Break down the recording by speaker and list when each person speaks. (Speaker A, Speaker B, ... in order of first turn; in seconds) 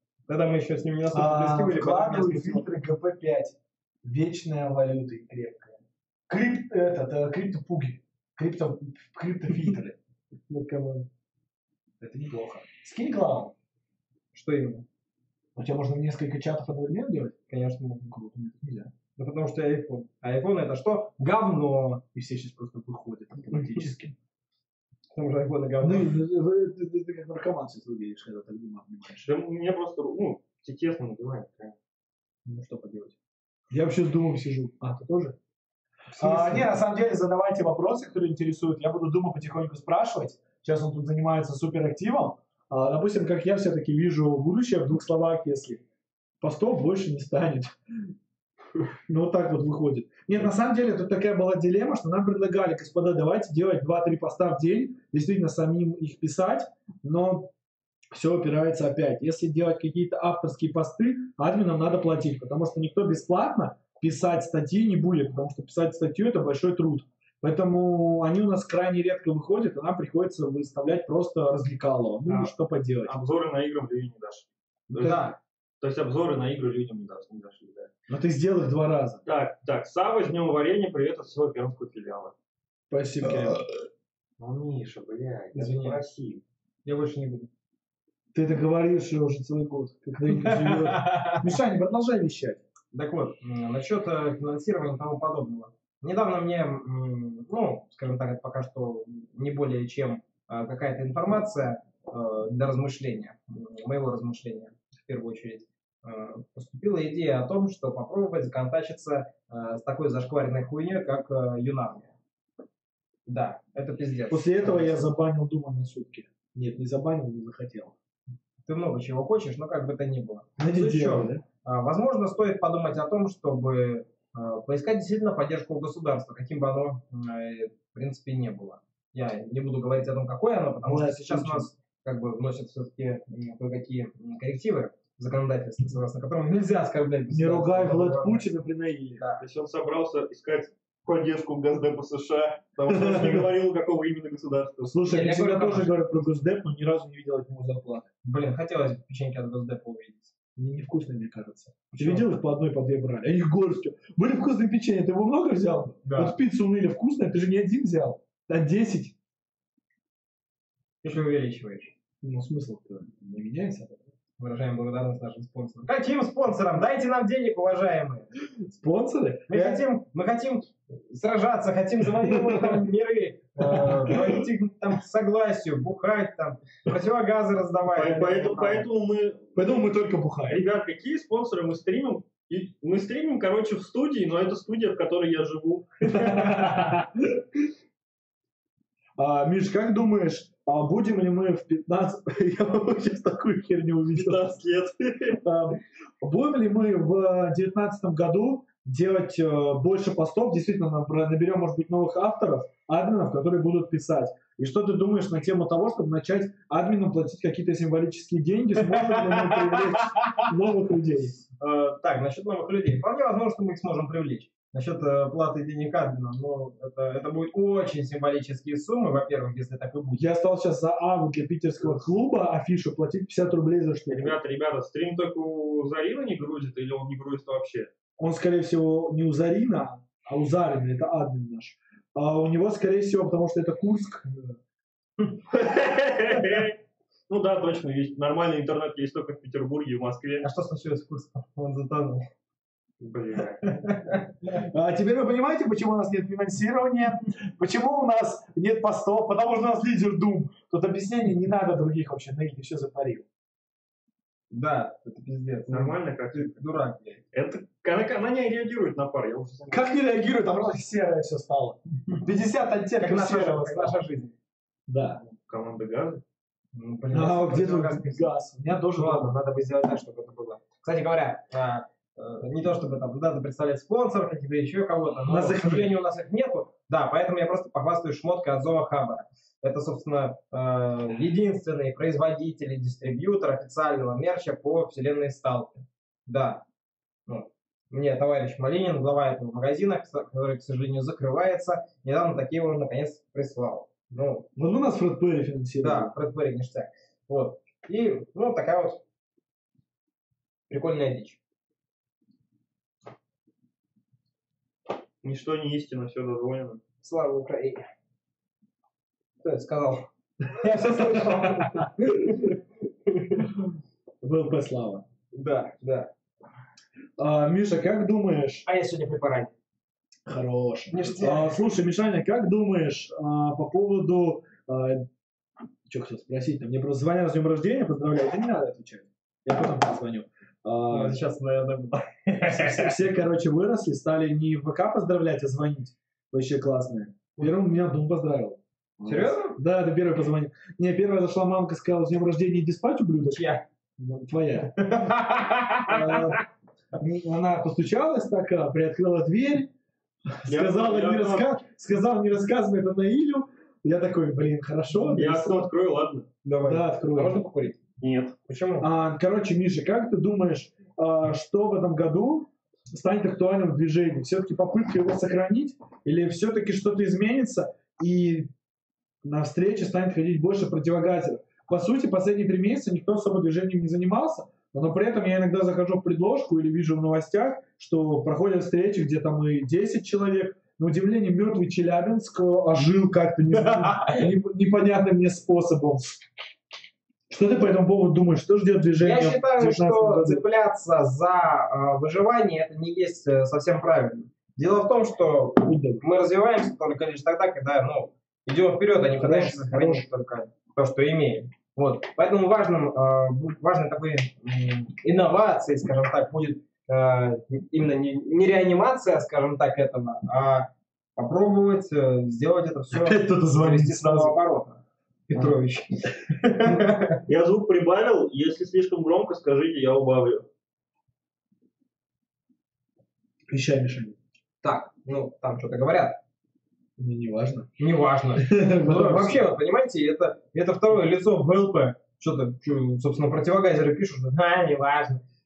Speaker A: 0.3-2.6, 14.3-14.8, 17.5-18.1, 19.2-22.0, 25.1-26.1, 36.1-36.7, 75.0-75.4, 86.8-87.5, 90.3-91.5, 92.9-112.1, 113.3-115.0, 118.7-138.4, 145.1-145.9, 148.2-150.3, 151.9-152.3, 156.0-156.4, 161.0-161.9, 164.4-168.3, 169.5-178.9, 208.8-210.5, 211.6-220.2, 240.4-242.2, 243.6-244.3, 254.5-257.2, 263.0-264.3, 266.7-268.3, 268.9-286.6, 287.3-294.5, 295.8-299.0, 300.7-301.4, 307.0-307.8, 309.4-312.5, 315.3-316.1, 318.6-319.5, 320.9-321.6, 330.9-333.0, 339.0-339.6, 343.3-343.6, 344.7-346.4, 356.4-357.8, 358.5-358.9, 383.5-384.3, 389.0-417.2, 424.6-426.2, 427.8-435.2
Speaker B: 1.1-9.9, 10.5-11.1, 12.0-13.5, 15.6-17.3, 18.1-18.9, 22.1-24.1, 25.8-29.3, 32.5-33.1, 33.7-35.3, 36.2-45.8, 46.4-48.1, 49.1-57.5, 58.1-73.1, 74.9-75.2, 78.1-79.2, 82.9-83.6, 85.5-86.0, 88.3-92.6, 114.3-117.9, 120.6-121.4, 130.8-131.7, 137.3-139.2, 142.9-143.5, 144.9-148.1, 150.6-159.1, 162.2-164.0, 168.6-169.8, 172.2-172.8, 173.6-174.4, 179.5-180.6, 186.1-187.4, 189.2-194.4, 195.4-211.3, 220.2-224.4, 228.2-234.5, 244.5-253.2, 259.7-263.9, 264.9-265.2, 267.1-269.4, 275.3-275.9, 294.6-296.1, 310.8-312.5, 313.4-313.7, 314.2-315.0, 317.2-318.6, 320.2-325.0, 325.9-331.2, 332.4-343.4, 344.0-344.8, 345.9-346.4, 347.0-349.7, 350.3-355.7, 356.6-357.4, 358.8-368.5, 369.2-386.3, 387.3-390.4, 395.6-396.0, 399.2-400.1, 412.9-414.3, 423.5-424.2, 427.0-427.7, 428.4-429.4
Speaker C: 29.2-31.7, 72.2-72.5, 73.0-75.2, 75.8-77.9, 79.2-82.3, 84.4-86.4, 139.4-145.0, 177.9-179.8, 180.5-186.9, 194.1-195.4, 224.1-227.9, 235.5-236.8, 237.3-240.4, 243.0-243.8, 255.7-256.6, 257.3-259.9, 265.2-266.2, 305.2-306.8, 350.5-351.5, 355.0-356.3, 358.0-358.4, 417.3-420.4